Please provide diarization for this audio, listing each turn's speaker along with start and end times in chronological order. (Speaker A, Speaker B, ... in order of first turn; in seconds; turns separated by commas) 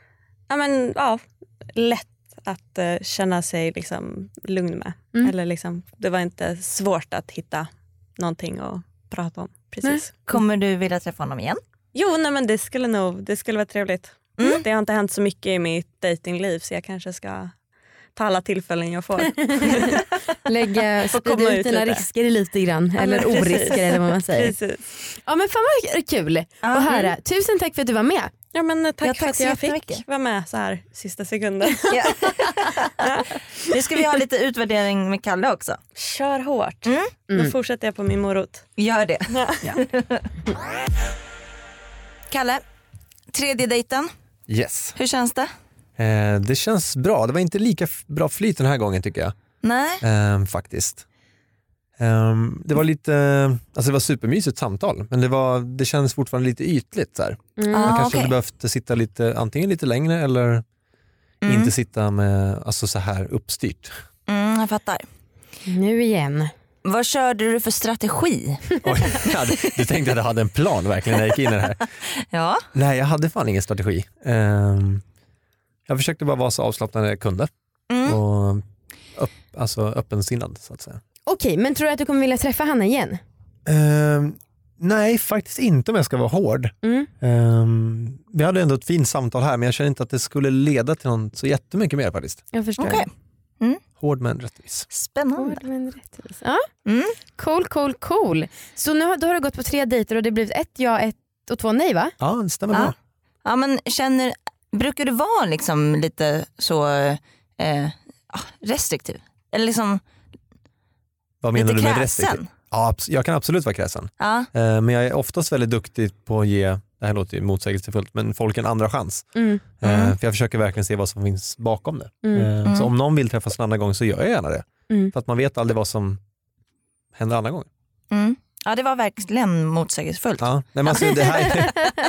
Speaker A: 0.5-10.2, Speaker B: 10.3-11.6, Speaker A: 11.9-17.5, Speaker B: 14.4-14.7, Speaker A: 18.2-20.1, Speaker C: 19.2-28.3, Speaker A: 21.1-22.1, Speaker A: 23.0-24.8, Speaker B: 26.6-27.1, Speaker A: 28.5-32.0, Speaker B: 29.0-30.0, Speaker B: 31.9-35.8, Speaker A: 33.0-33.3, Speaker A: 36.0-38.7, Speaker B: 36.9-37.1, Speaker B: 38.8-40.3, Speaker A: 39.3-39.6, Speaker B: 42.3-42.6, Speaker B: 43.3-44.1, Speaker D: 44.5-45.0, Speaker B: 45.0-45.5, Speaker D: 46.0-49.4, Speaker B: 49.6-50.0, Speaker D: 50.0-51.0, Speaker D: 52.0-60.6, Speaker C: 57.6-57.9, Speaker B: 57.7-58.3, Speaker B: 61.4-61.7, Speaker D: 61.5-64.0, Speaker B: 64.3-65.0, Speaker C: 65.7-66.5, Speaker B: 66.8-68.7, Speaker D: 68.8-71.8, Speaker B: 72.2-72.7, Speaker D: 72.7-75.0, Speaker D: 75.9-77.5, Speaker B: 77.9-78.2, Speaker D: 78.0-78.6, Speaker D: 79.2-81.0, Speaker C: 81.3-83.2, Speaker D: 83.7-92.4, Speaker C: 86.8-87.1, Speaker C: 92.5-93.1, Speaker B: 92.8-93.1, Speaker D: 94.0-94.9, Speaker B: 94.9-95.6, Speaker C: 95.4-96.7, Speaker B: 96.9-97.2, Speaker C: 97.4-102.1, Speaker D: 102.2-103.0, Speaker B: 102.7-110.0, Speaker D: 111.4-119.3, Speaker B: 111.5-112.5, Speaker B: 114.2-114.5, Speaker C: 119.4-119.6, Speaker D: 119.8-126.2, Speaker B: 119.8-120.2, Speaker C: 122.2-122.5, Speaker B: 122.7-122.9, Speaker D: 127.2-127.7, Speaker B: 128.1-131.7, Speaker D: 130.4-131.7